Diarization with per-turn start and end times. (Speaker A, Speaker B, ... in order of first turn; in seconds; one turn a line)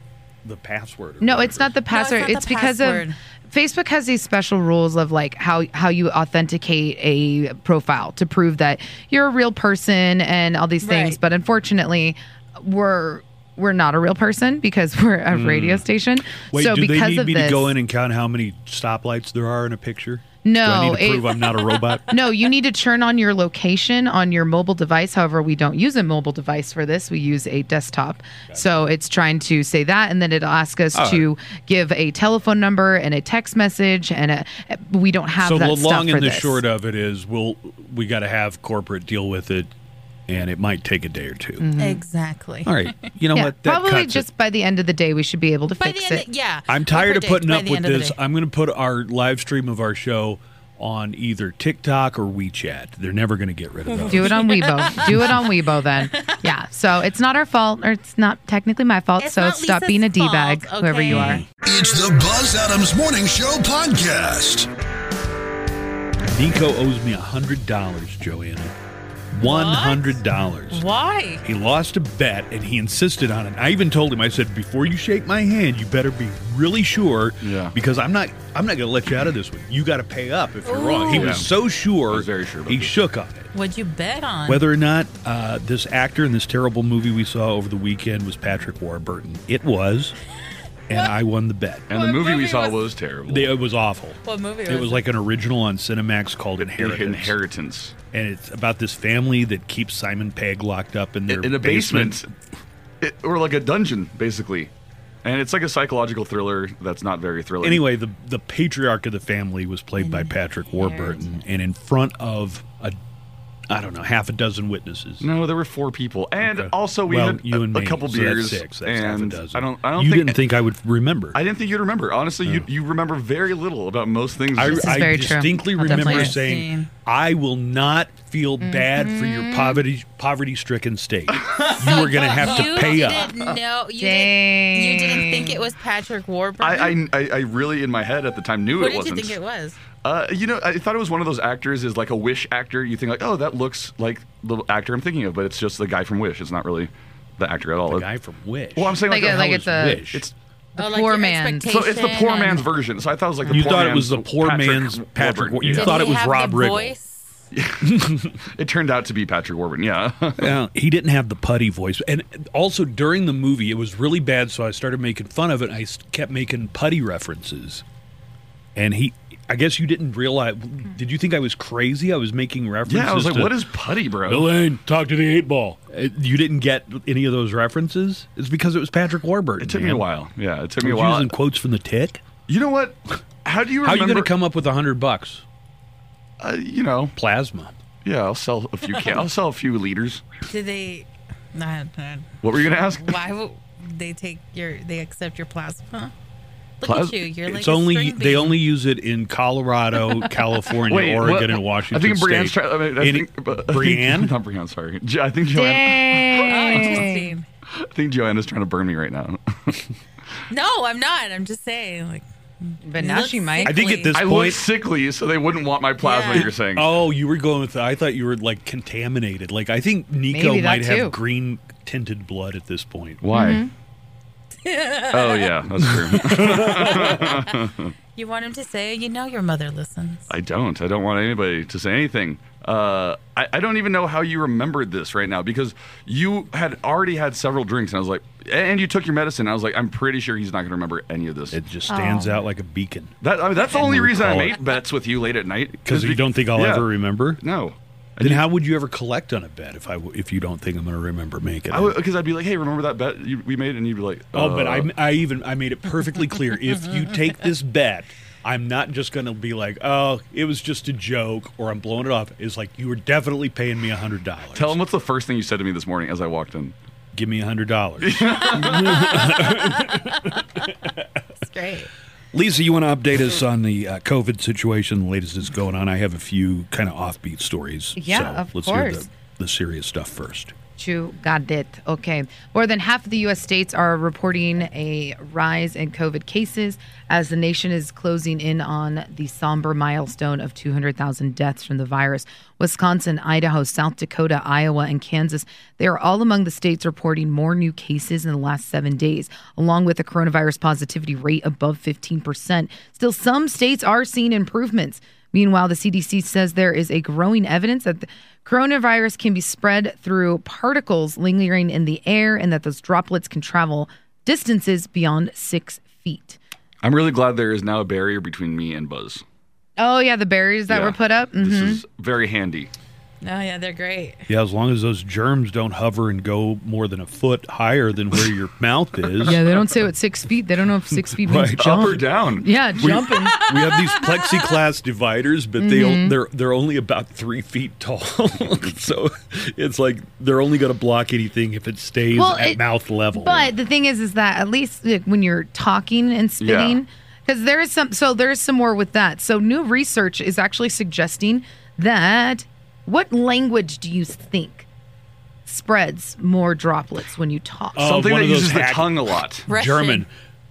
Speaker A: 0.4-1.7
Speaker B: 1.2-17.7
Speaker C: 1.9-3.2
Speaker C: 10.8-11.2
Speaker A: 15.3-22.2
Speaker B: 20.4-36.6
Speaker A: 30.9-31.3
Speaker A: 35.4-39.7
Speaker A: 40.3-41.7
Speaker B: 41.6-42.0
Speaker C: 41.8-43.0
Speaker A: 42.6-44.3
Speaker B: 43.3-46.2
Speaker C: 45.8-48.2
Speaker A: 46.7-54.4
Speaker C: 53.9-55.5
Speaker B: 54.1-61.4
Speaker C: 56.1-56.4
Speaker C: 59.2-61.4
Speaker A: 61.1-61.4
Speaker D: 61.6-64.7
Speaker A: 66.2-68.7
Speaker A: 69.3-70.8
Speaker C: 69.4-70.2
Speaker C: 70.7-71.4
Speaker A: 71.4-83.5
Speaker E: 77.4-77.7
Speaker C: 80.7-81.4
Speaker E: 81.1-81.5
Speaker E: 82.1-83.0
Speaker C: 83.5-84.6
Speaker A: 84.5-90.2
Speaker A: 90.9-91.9
Speaker E: 91.9-93.5
Speaker C: 91.9-92.8
Speaker A: 93.3-97.4
Speaker C: 94.2-95.0
Speaker E: 96.6-98.0
Speaker A: 98.1-102.3
Speaker E: 101.3-102.3
Speaker E: 103.0-104.7
Speaker E: 105.2-107.8
Speaker A: 107.6-113.0
Speaker A: 113.7-115.3
Speaker E: 115.2-120.4
Speaker A: 116.4-121.4
Speaker E: 121.3-125.0
Speaker A: 124.5-133.3
Speaker B: 124.6-126.4
Speaker C: 125.8-126.9
Speaker B: 128.6-129.8
Speaker E: 131.4-131.8
Speaker C: 131.8-137.0
Speaker B: 134.0-135.6
Speaker E: 136.6-139.4
Speaker C: 138.8-139.8
Speaker E: 140.0-148.1
Speaker A: 147.9-150.2
Speaker E: 148.8-150.3
Speaker B: 149.1-150.1
Speaker B: 150.8-151.7
Speaker C: 150.8-152.7
Speaker E: 151.7-156.1
Speaker A: 153.5-156.9
Speaker C: 155.7-157.3
Speaker E: 157.5-160.6
Speaker A: 157.8-158.4
Speaker A: 160.4-167.8
Speaker A: 168.8-173.7
Speaker E: 172.9-174.5
Speaker A: 174.2-180.1
Speaker E: 179.6-181.3
Speaker A: 180.8-182.2
Speaker E: 182.5-184.3
Speaker A: 183.8-185.4
Speaker E: 186.4-187.1
Speaker A: 187.2-187.7
Speaker E: 188.0-190.2
Speaker C: 190.5-192.4
Speaker E: 192.4-193.2
Speaker C: 193.0-196.1
Speaker C: 196.8-198.6
Speaker E: 196.8-197.2
Speaker A: 197.5-204.3
Speaker E: 200.9-207.1
Speaker B: 205.5-207.3
Speaker C: 206.4-207.5
Speaker E: 207.7-209.9
Speaker C: 210.5-214.2
Speaker B: 212.8-213.8
Speaker A: 213.7-214.7
Speaker E: 214.1-216.9
Speaker C: 216.0-216.5
Speaker A: 216.3-223.2
Speaker B: 220.3-221.2
Speaker E: 223.2-223.7
Speaker B: 223.3-223.7
Speaker C: 224.6-225.7
Speaker E: 225.1-227.9
Speaker A: 225.8-227.4
Speaker C: 226.3-227.6
Speaker C: 228.2-230.3
Speaker E: 230.3-241.6
Speaker A: 241.5-243.2
Speaker B: 241.9-242.4
Speaker E: 243.2-248.4
Speaker A: 243.7-244.6
Speaker A: 245.8-247.4
Speaker A: 248.2-252.0
Speaker E: 251.7-254.9
Speaker A: 254.3-264.8
Speaker E: 264.6-266.8
Speaker A: 267.1-271.2
Speaker E: 268.0-269.4
Speaker C: 269.0-270.8
Speaker C: 271.4-271.9
Speaker A: 272.3-280.5
Speaker B: 278.0-279.1
Speaker B: 280.8-316.4
Speaker E: 316.8-319.2
Speaker B: 319.8-321.8
Speaker E: 320.7-322.7
Speaker C: 323.2-324.3
Speaker A: 324.3-329.4
Speaker B: 329.2-333.4
Speaker A: 331.1-332.0
Speaker E: 331.6-332.7
Speaker A: 332.8-343.5
Speaker C: 333.1-334.6
Speaker B: 335.6-336.2
Speaker B: 342.1-342.6
Speaker B: 343.1-354.7
Speaker E: 346.4-346.8
Speaker B: 355.5-357.9
Speaker A: 357.8-360.1
Speaker E: 357.8-359.5
Speaker C: 359.5-360.1